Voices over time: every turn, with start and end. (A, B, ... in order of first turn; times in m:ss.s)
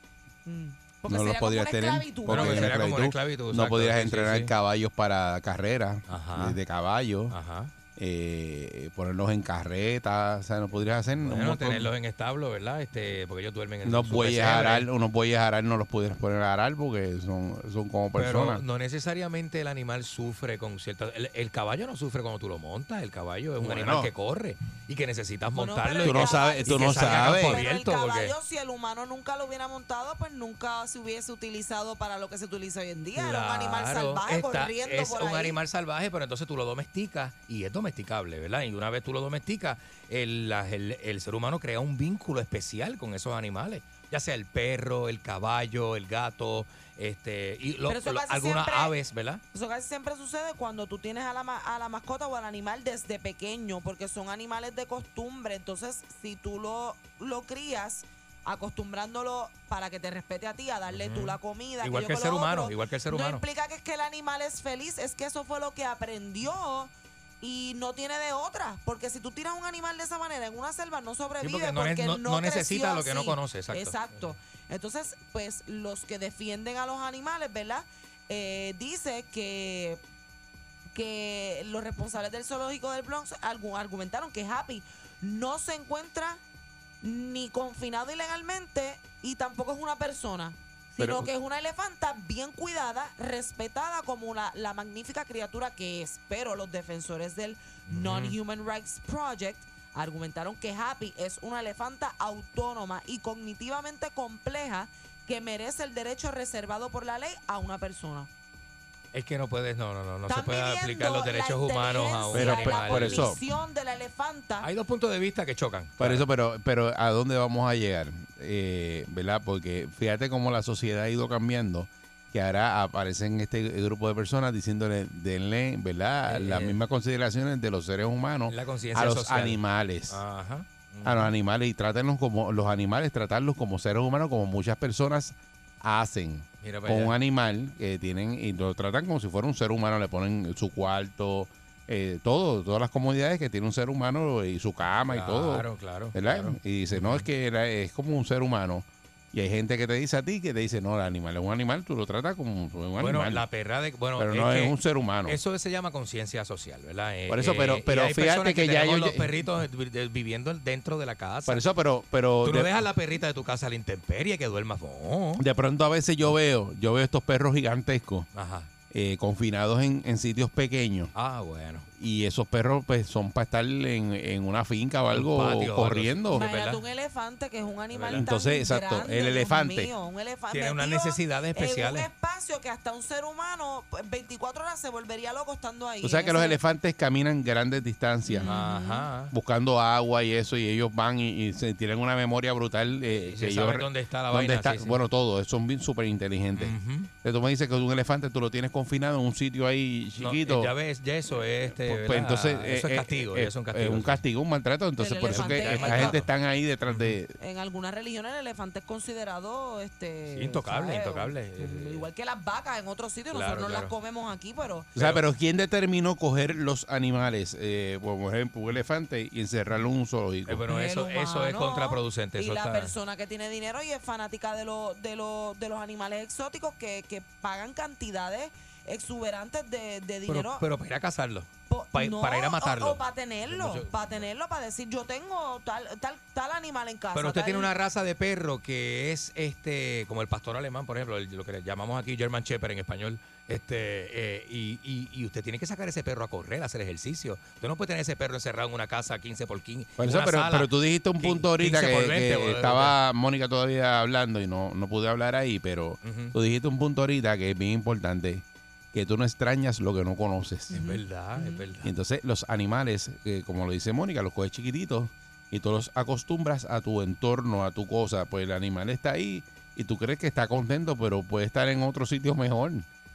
0:00.4-0:02.8 A
0:01.1-0:07.4 B
0:02.3-0:04.5 C
0:06.1-0:06.6 C
0:07.3-0:07.7 C
0:08.0-0:11.9 B
0:11.2-0:14.9 C
0:13.8-0:18.6 B
0:18.2-0:28.4 C
0:23.6-0:24.1 B
0:25.6-0:35.6 A
0:26.0-0:27.6 B
0:33.2-0:49.4 C
0:47.9-0:48.9 A
0:49.5-1:20.0 A
1:00.9-1:03.4 C
1:11.4-1:14.3 C
1:20.9-1:26.4 A
1:27.0-1:48.3 A
1:31.0-1:31.3 B
1:37.9-1:38.4 C
1:49.1-1:53.3 C
1:50.3-1:54.7 A
1:52.3-1:53.4 B
1:54.6-1:56.3 C
1:56.0-2:10.2 B
2:06.3-2:06.8 C
2:08.5-2:11.3 C
2:11.0-2:33.4 B
2:16.6-2:17.2 C
2:25.1-2:27.3 C
2:33.0-2:41.6 C
2:34.2-2:35.4 B
2:37.3-2:39.3 B
2:41.5-2:42.8 B
2:42.4-2:45.4 C
2:45.4-2:48.3 B
2:48.3-2:48.7 C
2:48.9-2:51.1 B
2:51.1-2:51.9 C
2:52.0-2:56.4 B
2:55.1-2:56.8 C
2:56.3-3:06.6 A
2:57.9-2:58.3 C
2:58.1-2:59.9 B
3:00.5-3:02.1 C
3:06.0-3:08.6 B
3:08.3-3:09.1 A
3:08.4-3:09.3 C
3:09.3-3:20.7 B
3:13.1-3:15.0 C
3:16.6-3:17.1 C
3:20.2-3:24.2 C
3:21.7-3:27.4 B
3:25.0-3:26.2 A
3:25.3-3:26.3 C
3:26.9-3:27.2 C
3:27.4-3:34.9 A
3:30.3-3:32.1 C
3:33.3-3:33.9 C
3:35.0-3:35.2 C
3:35.0-3:40.6 B
3:40.5-3:42.9 C
3:40.7-3:50.6 A
3:50.3-3:54.3 C
3:51.7-3:57.7 A
3:57.1-4:13.0 C
4:10.0-4:20.7 B
4:16.0-4:16.3 C
4:20.7-4:21.9 C
4:20.7-4:21.6 A
4:21.8-4:32.9 B